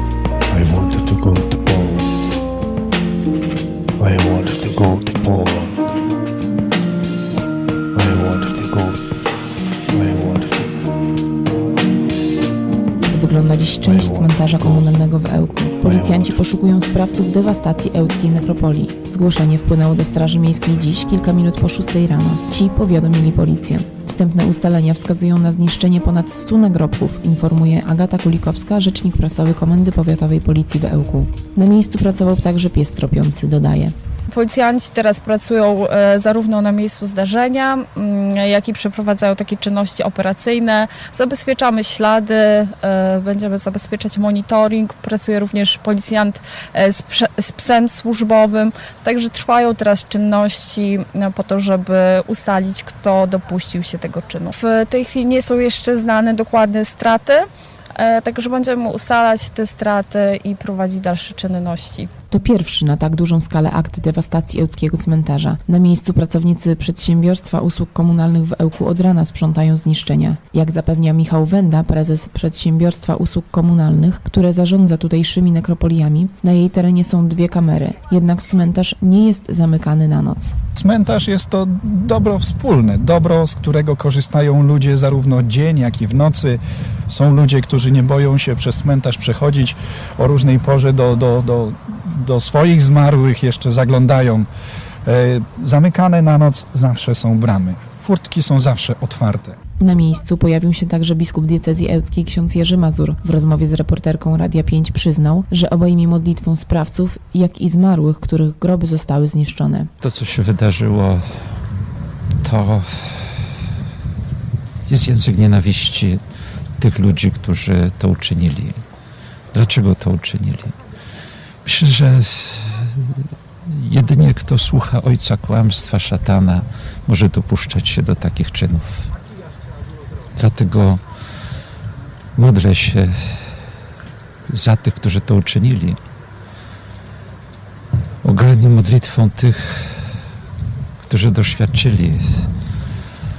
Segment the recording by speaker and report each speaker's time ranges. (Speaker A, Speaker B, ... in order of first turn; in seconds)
Speaker A: 0.5-2.1, 4.0-5.9, 8.0-9.0, 9.9-10.7, 13.8-14.9, 15.8-16.4
Speaker B: 13.1-34.0, 62.3-80.5, 99.8-109.9
Speaker C: 34.4-57.4, 58.0-62.1
Speaker D: 80.8-86.6, 87.1-94.5, 95.1-99.6
Speaker E: 110.0-111.6, 112.4-113.4, 114.9-116.2, 116.8-118.8, 119.5-120.8, 121.7-129.1, 130.3-131.0, 132.4-133.6, 134.5-136.0, 138.2-140.1, 141.1-142.5